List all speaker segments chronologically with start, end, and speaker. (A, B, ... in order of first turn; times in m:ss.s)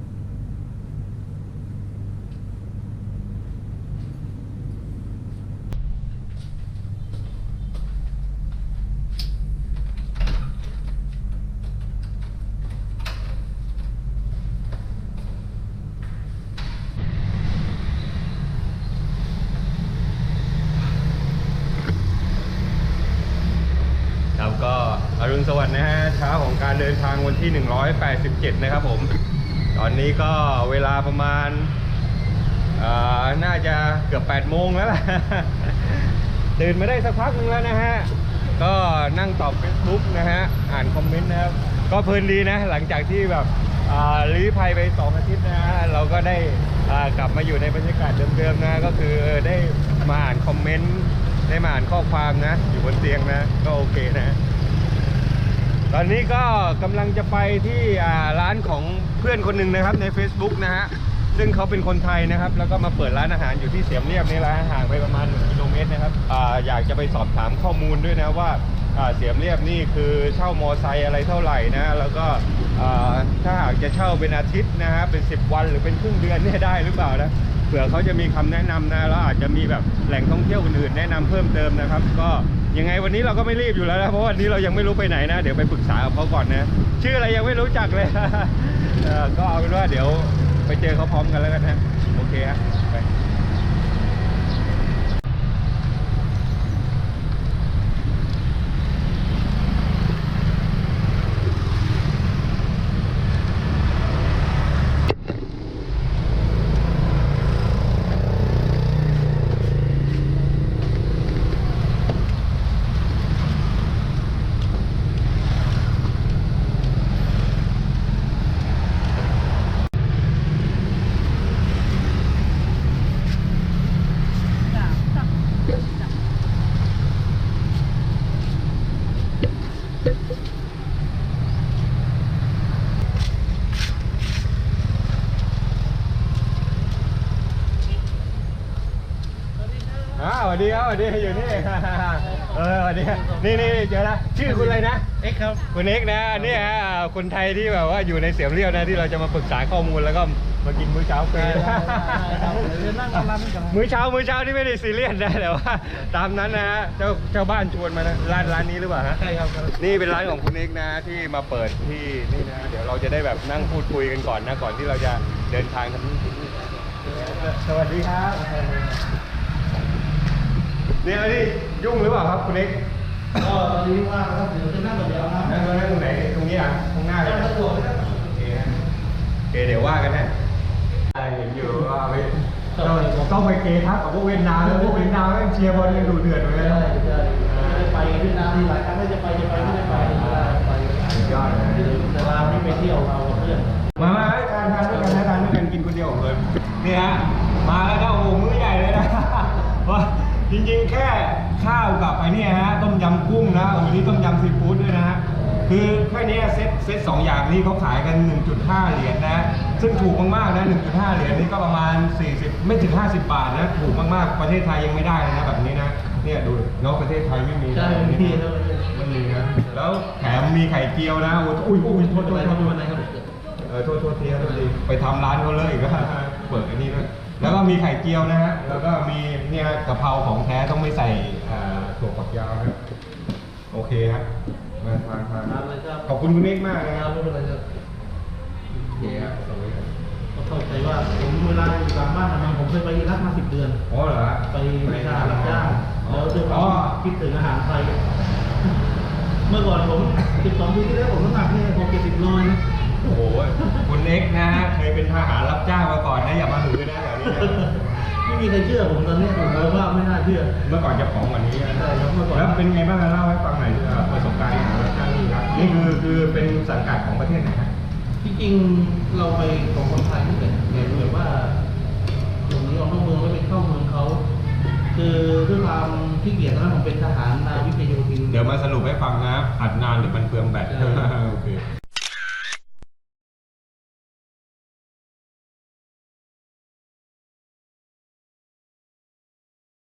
0:24.4-0:29.1 A
0:29.8-0:31.7 A
0:32.8-0:54.4 A
0:55.9-1:33.1 A
2:19.6-2:23.8 B
2:20.2-2:25.1 A
2:24.4-2:25.6 B
2:25.7-2:32.7 A
2:26.3-2:26.7 B
2:31.3-2:33.8 B
2:33.7-2:39.2 A
2:39.2-2:40.0 B
2:39.8-2:48.6 A
2:51.0-2:52.8 A
2:53.4-2:55.6 B
2:55.4-2:57.6 A
2:57.2-2:58.3 B
2:58.1-2:58.8 A
2:59.5-3:00.3 A
3:01.1-3:06.9 A
3:02.8-3:03.3 B
3:04.6-3:14.0 B
3:07.4-3:07.9 A
3:09.6-3:12.6 A
3:14.0-3:38.4 A
3:37.7-3:39.6 B
3:38.9-3:42.8 A
3:42.0-3:43.3 B
3:43.7-3:52.8 A
3:44.4-3:44.7 B
3:53.7-3:54.3 A
3:54.8-3:57.1 A
3:55.4-3:56.1 B
3:56.9-3:57.6 B
3:59.0-3:59.9 A
3:59.0-3:59.3 B
4:00.4-4:03.8 B
4:03.9-4:06.9 A
4:04.5-4:08.0 B
4:09.5-4:12.6 B
4:13.0-4:18.0 A
4:17.3-4:20.6 B
4:20.6-4:27.7 A
4:21.7-4:22.6 B
4:25.5-4:25.9 B
4:28.2-4:31.6 B
4:32.4-4:34.2 B
4:34.9-4:38.4 B
4:38.3-4:41.6 A